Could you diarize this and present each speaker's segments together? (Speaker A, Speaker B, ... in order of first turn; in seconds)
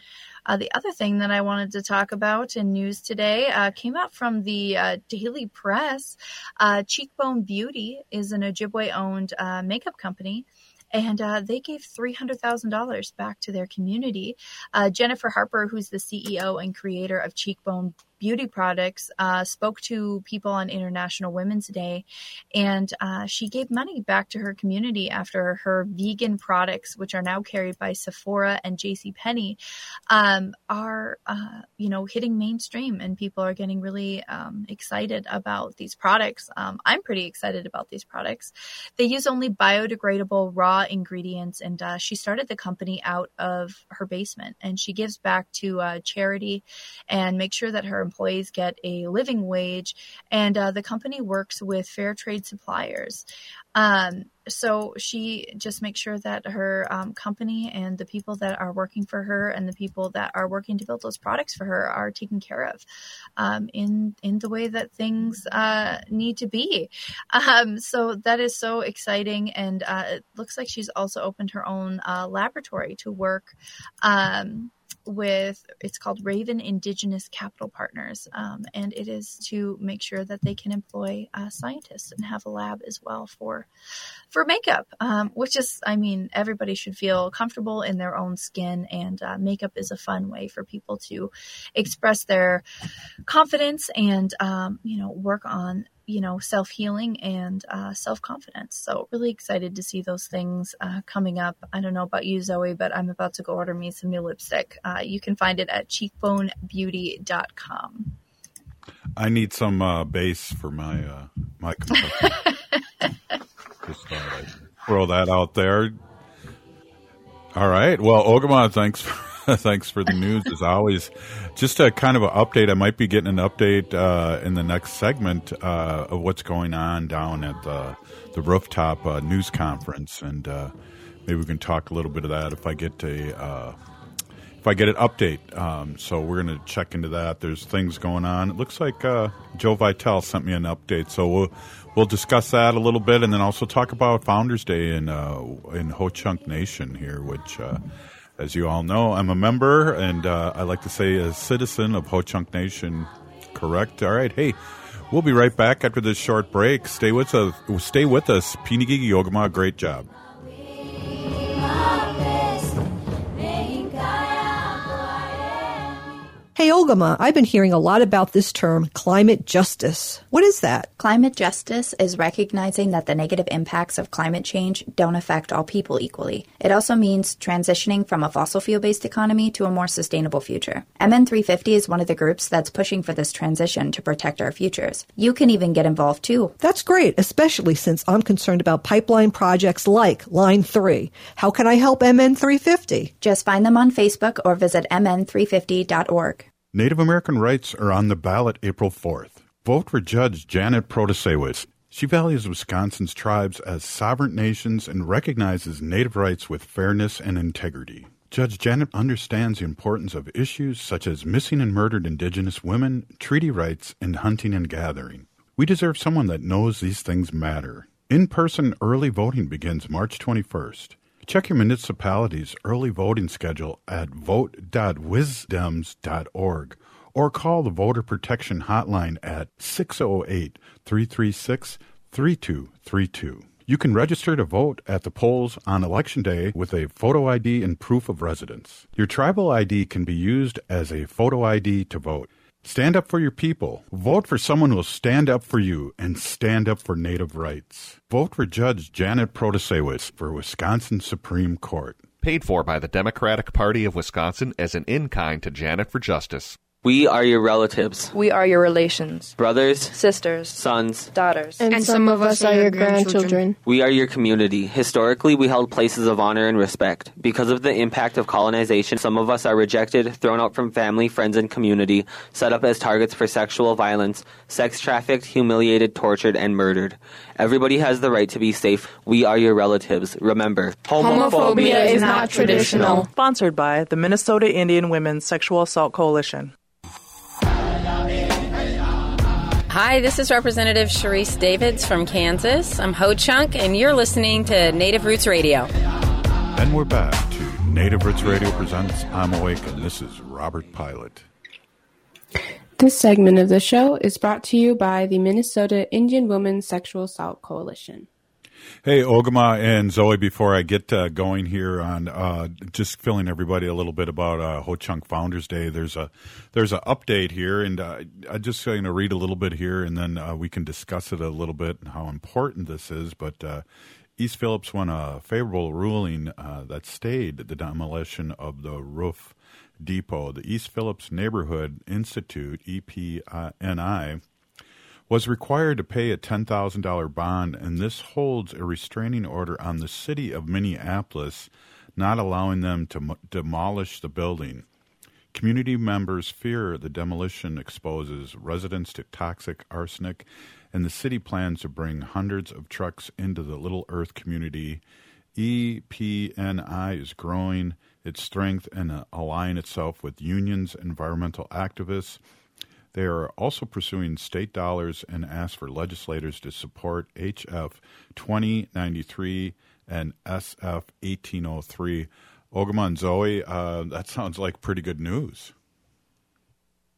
Speaker A: 0.5-29.6, 30.1-53.2, 53.8-62.8, 63.4-83.7, 84.3-92.6, 93.3-108.1, 112.2-112.5
Speaker B: 109.2-112.3, 113.8-116.0, 117.5-130.7, 131.3-133.8, 134.6-147.8, 148.4-154.6, 155.1-160.1, 196.7-252.0, 296.6-301.3, 308.8-323.6, 324.2-334.2, 335.1-344.7, 345.3-354.8, 355.4-362.2, 362.9-375.5
Speaker C: 166.6-170.9, 186.6-193.1
Speaker D: 171.0-186.6, 193.2-196.5
Speaker E: 252.2-256.6
Speaker F: 256.8-258.1, 259.4-259.9, 260.6-261.1, 263.6-280.8
Speaker G: 258.1-259.4, 259.9-260.6, 261.1-261.7
Speaker H: 261.6-263.6, 281.0-283.1
Speaker I: 282.9-286.5
Speaker J: 289.7-295.7
Speaker K: 302.8-308.1